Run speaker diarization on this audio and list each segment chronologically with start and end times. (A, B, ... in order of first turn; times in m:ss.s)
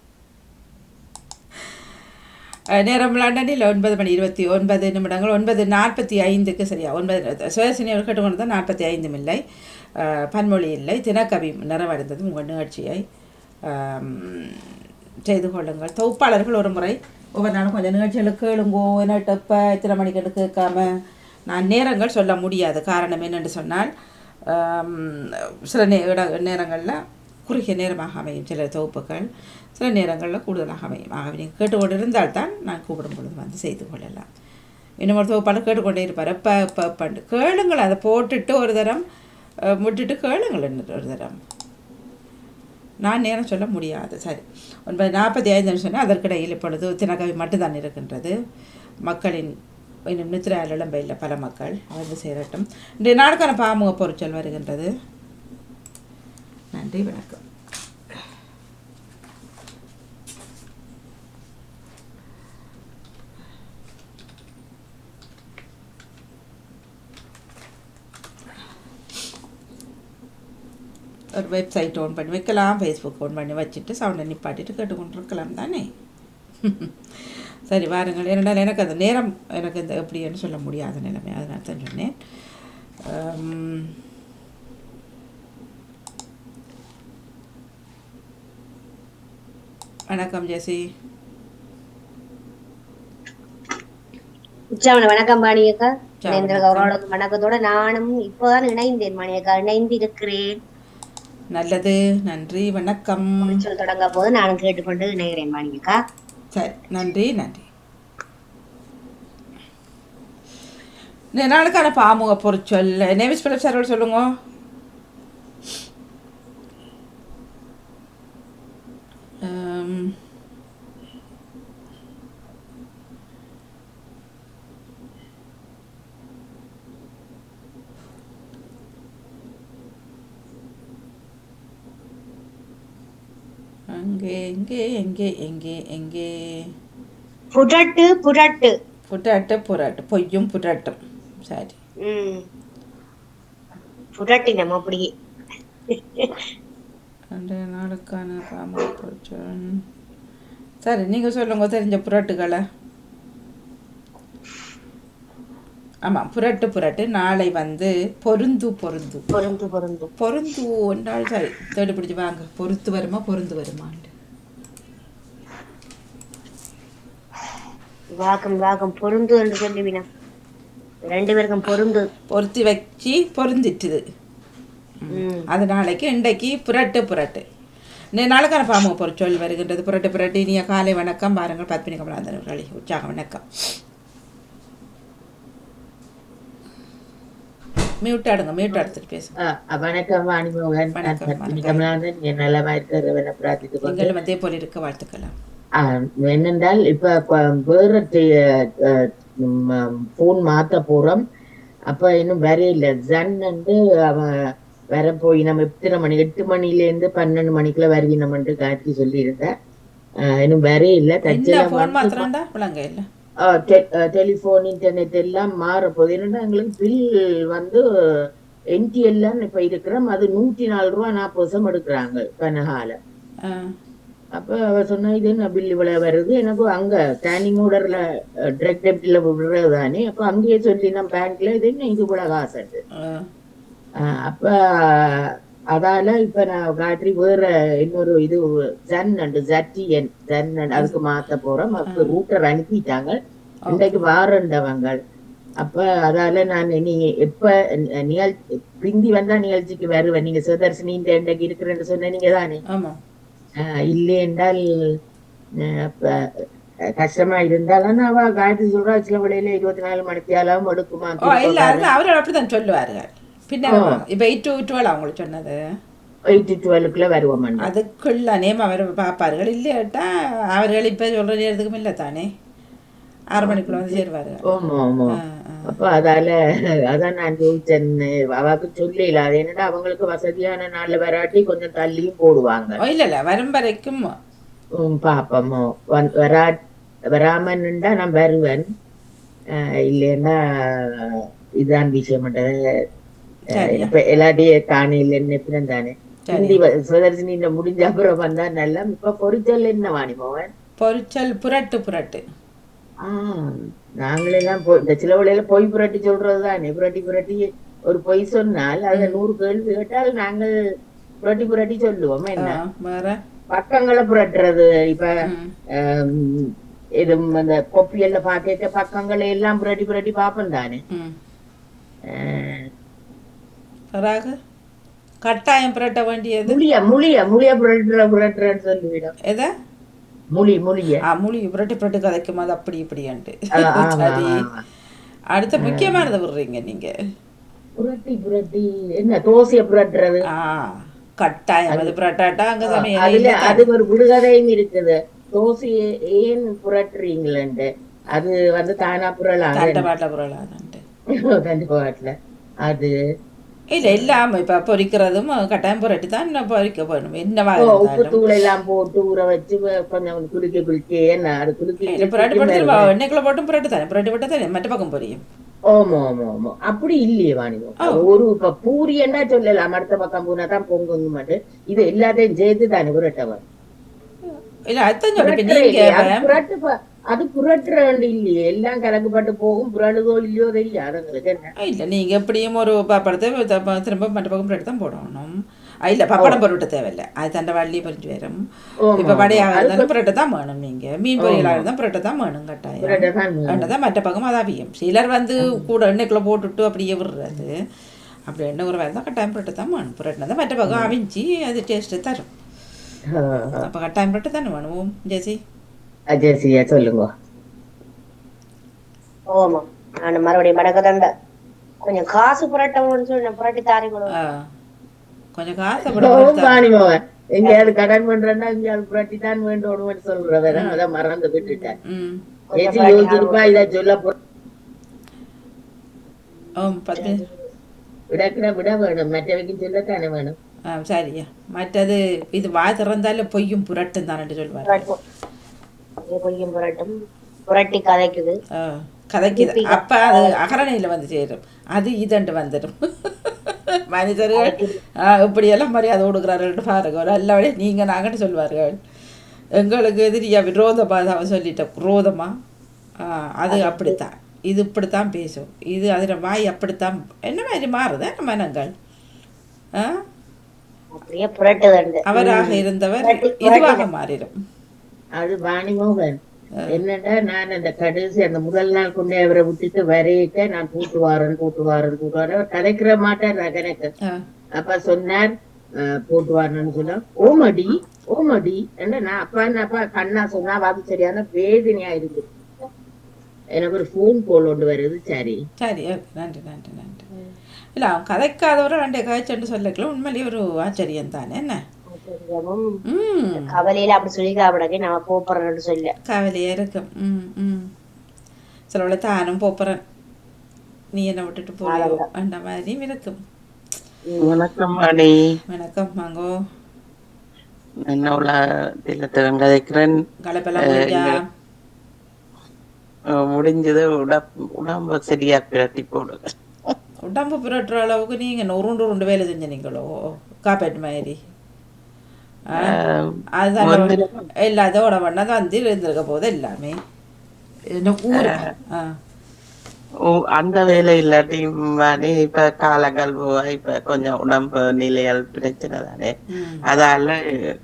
0:02.8-0:09.4 A
0:10.0-0:13.0 A
0:13.7-0:14.6 A
0:15.3-0:20.9 A
0:21.5-0:23.9 A
0:24.5-0:29.2 A
0:29.8-0:34.3 A
0:35.0-0:39.0 A
0:39.7-0:41.4 A
0:43.0-0:48.3 A
0:49.1-0:49.5 A
0:50.1-0:54.9 A
0:56.7-0:57.4 A
1:11.4-1:15.9 A
1:16.6-1:22.1 A
1:23.1-1:23.9 A
1:30.1-1:30.8 A
1:34.7-1:40.6 B
1:36.2-1:36.9 A
1:41.5-1:43.6 A
1:43.4-1:46.0 B
1:46.5-1:47.6 A
1:51.4-1:54.3 A
1:59.5-2:00.1 A
2:14.0-2:16.3 A
2:17.5-2:18.7 B
2:19.1-2:21.8 A
2:22.0-2:22.4 B
2:24.2-2:25.1 B
2:25.9-2:26.3 B
2:27.3-2:29.8 A
2:30.8-2:32.6 A
2:36.1-2:39.3 A
2:39.3-2:40.1 B
2:40.2-2:44.1 A
2:48.2-2:50.1 B
2:51.1-2:52.1 B
2:52.3-2:54.0 A
2:55.0-2:57.4 A
2:55.1-2:55.5 B
2:58.2-3:03.4 A
3:08.0-3:09.3 A
3:09.5-3:14.1 C
3:11.0-3:11.8 A
3:13.8-3:15.3 A
3:15.8-3:18.2 C
3:18.8-3:21.2 C
3:21.9-3:24.3 C
3:24.9-3:29.5 C
3:30.3-3:32.3 C
3:31.3-3:33.1 A
3:33.4-3:37.8 C
3:38.7-3:43.0 C
3:43.4-3:43.7 A
3:44.4-3:48.0 C
3:48.6-3:52.8 C
3:53.0-3:53.3 A
3:54.0-4:03.2 C
4:01.9-4:02.2 A
4:03.7-4:05.0 C
4:05.6-4:12.6 C
4:12.7-4:13.0 A
4:13.6-4:14.6 C
4:15.8-4:16.2 C
4:17.0-4:21.9 C
4:21.3-4:25.6 A
4:23.7-4:24.0 C
4:26.3-4:27.7 C
4:27.7-4:32.3 A
4:33.3-4:34.5 A
4:33.4-4:35.2 C
4:35.2-4:35.8 A
4:35.7-4:36.3 C
4:36.9-4:42.8 C
4:42.8-4:44.0 A
4:44.8-4:46.5 C
4:47.1-4:48.7 C
4:49.6-4:52.5 C
4:53.5-4:53.9 A
4:53.6-5:00.5 C
4:56.3-4:56.6 A
5:00.8-5:02.2 A
5:03.0-5:10.5 C
5:08.9-5:09.2 A
5:11.2-5:12.6 C
5:12.4-5:13.2 A
5:13.5-5:15.1 C
5:15.3-5:15.5 A
5:15.8-5:20.8 C
5:22.2-5:22.7 C
5:23.9-5:24.3 A
5:25.2-5:26.6 A
5:26.5-5:29.1 C
5:30.3-5:31.0 C
5:31.1-5:34.4 A
5:33.6-5:34.6 C
5:35.3-5:36.9 A
5:35.6-5:36.1 C
5:37.8-5:40.2 C
5:40.4-5:43.6 A
5:42.7-5:49.8 C
5:49.6-5:50.8 A
5:51.3-5:52.1 C
5:52.6-5:52.9 C
5:53.7-5:58.2 A
5:53.8-5:54.2 C
5:57.6-6:02.9 C
6:01.9-6:05.2 A
6:05.7-6:13.4 C
6:14.7-6:16.3 A
6:15.2-6:21.5 C
6:21.6-6:25.3 A
6:25.9-6:28.4 A
6:28.9-6:29.9 C
6:29.0-6:37.6 A
6:31.2-6:31.7 C
6:32.8-6:33.7 C
6:38.3-6:42.3 A
6:40.7-6:40.9 C
6:43.2-6:43.7 C
6:43.6-6:45.4 A
6:46.1-6:47.1 C
6:49.3-6:51.1 B
6:51.8-6:54.2 B
6:54.2-6:54.4 A
6:55.4-6:56.6 A
6:55.9-7:01.8 C
6:57.4-6:57.7 B
7:00.5-7:00.8 A
7:01.9-7:02.2 A
7:02.5-7:03.6 B
7:02.6-7:04.2 C
7:06.6-7:07.2 A
7:07.0-7:07.2 B
7:08.1-7:10.4 C
7:10.7-7:14.8 A
7:14.6-7:15.0 B
7:16.0-7:16.9 B
7:17.5-7:18.4 B
7:18.6-7:28.8 A
7:19.4-7:20.5 B
7:24.4-7:24.8 B
7:29.6-7:32.3 A
7:33.0-7:38.7 A
7:33.5-7:34.0 B
7:40.9-7:42.5 B
7:42.1-7:44.4 A
7:43.0-7:43.8 B
7:45.2-7:46.2 C
7:46.7-7:53.9 C
7:54.6-8:02.3 C
8:03.6-8:05.4 C
8:05.6-8:07.1 A
8:07.8-8:11.6 A
8:11.9-8:12.7 B
8:12.9-8:13.5 A
8:13.4-8:15.9 B
8:16.1-8:17.7 A
8:18.7-8:19.8 A
8:20.9-8:23.2 A
8:21.6-8:22.0 B
8:24.1-8:24.4 B
8:24.2-8:25.2 D
8:25.5-8:26.3 A
8:27.9-8:30.0 D
8:30.3-8:31.2 A
8:30.7-8:31.0 D
8:33.2-8:36.2 D
8:37.0-8:39.9 A
8:40.5-8:41.2 A
8:42.6-8:43.0 D
8:43.4-8:46.8 A
8:43.6-8:44.2 D
8:47.7-8:48.9 A
8:48.1-8:48.4 D
8:50.2-8:56.1 D
8:56.3-8:56.6 A
8:56.7-8:57.2 D